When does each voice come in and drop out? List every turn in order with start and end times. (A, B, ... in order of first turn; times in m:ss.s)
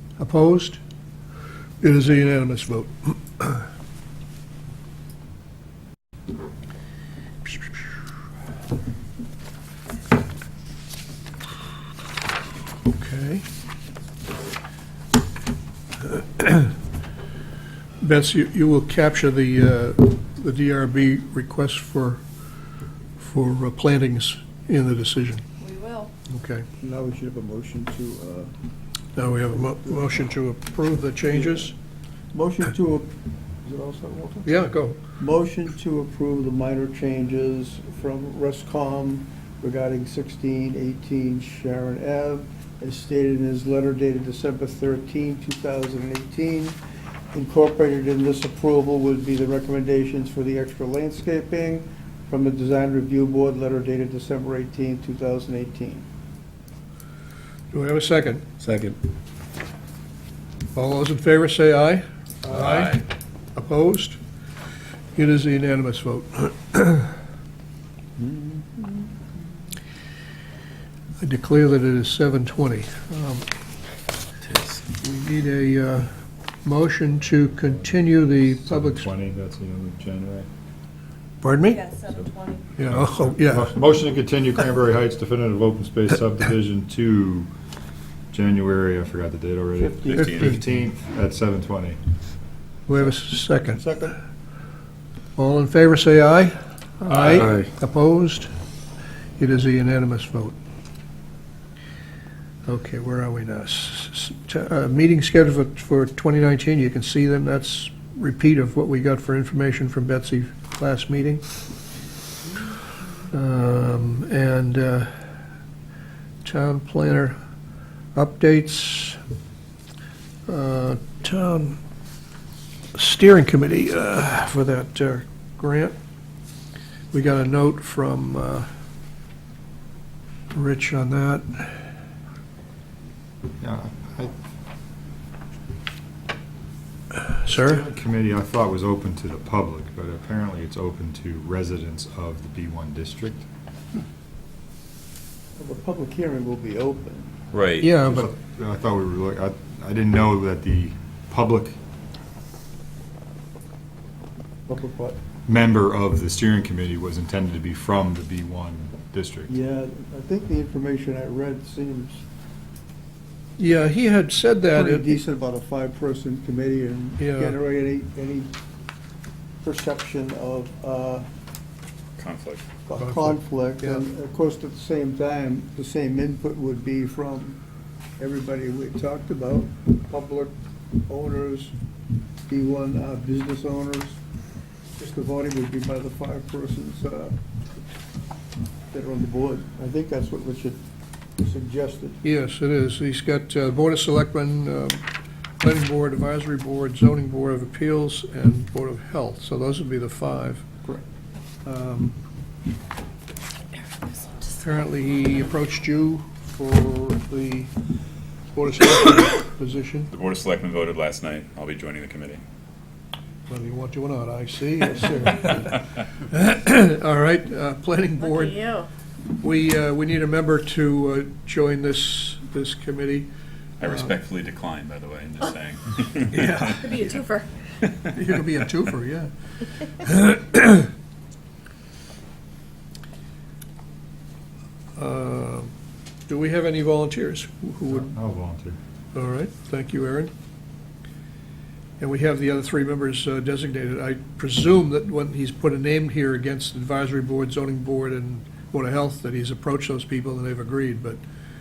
0:00.2-0:00.8 A
0:01.8-0:03.6 A
0:12.9-0:13.5 A
0:16.0-0:16.7 A
0:18.0-0:22.2 A
0:23.2-0:25.4 A
0:25.6-0:26.1 B
0:26.3-0:26.6 A
0:26.8-0:28.5 C
0:29.2-0:31.7 A
0:29.6-0:30.1 C
0:31.3-0:31.7 C
0:32.3-0:33.1 C
0:33.6-0:34.5 C
0:34.5-0:35.0 A
0:35.2-0:46.8 C
0:47.3-0:56.1 C
0:57.7-0:58.5 A
1:00.8-1:04.2 A
1:02.5-1:03.0 D
1:05.2-1:07.1 A
1:08.2-1:09.1 C
1:11.2-1:13.5 A
1:14.5-1:14.7 D
1:15.0-1:16.1 A
1:16.6-1:19.1 A
1:18.6-1:20.5 E
1:21.4-1:21.8 A
1:21.6-1:22.8 B
1:22.8-1:23.7 A
1:22.9-1:27.5 E
1:28.3-1:32.0 E
1:29.8-1:30.4 C
1:30.0-1:30.6 D
1:30.2-1:30.6 A
1:32.9-1:33.9 A
1:33.7-1:34.2 C
1:35.4-1:38.5 A
1:39.4-1:40.6 A
1:42.7-1:51.4 A
1:53.3-1:55.1 A
1:56.4-1:57.4 A
1:58.2-1:59.2 A
2:00.5-2:01.8 A
2:03.0-2:06.0 A
2:07.1-2:08.7 A
2:10.5-2:11.8 A
2:13.6-2:14.3 E
2:17.2-2:17.8 A
2:17.5-2:23.5 E
2:25.6-2:27.3 C
2:27.5-2:27.9 D
2:27.8-2:28.3 A
2:28.0-2:31.8 E
2:34.7-2:35.2 C
2:35.5-2:39.5 E
2:39.5-2:42.2 C
2:43.6-2:45.2 A
2:44.7-2:48.5 C
2:47.2-2:47.6 A
2:49.6-2:51.3 C
2:52.2-2:52.6 D
2:52.9-2:57.6 C
2:53.0-2:54.0 A
2:58.2-3:00.5 C
3:01.1-3:01.7 C
3:02.5-3:04.2 C
3:05.0-3:07.4 C
3:08.9-3:10.8 C
3:11.4-3:12.2 C
3:12.2-3:15.0 A
3:15.6-3:20.6 A
3:21.7-3:22.2 A
3:24.1-3:24.3 B
3:24.5-3:27.7 A
3:28.5-3:30.1 A
3:30.1-3:32.4 D
3:33.5-3:38.7 A
3:38.2-3:38.9 B
3:39.4-3:43.3 A
3:43.8-3:47.1 D
3:46.3-3:47.2 A
3:46.8-3:47.5 B
3:48.1-3:50.9 A
3:55.0-3:55.7 A
3:56.3-3:58.1 A
3:57.9-3:58.8 E
3:59.1-4:00.3 A
4:02.0-4:11.2 A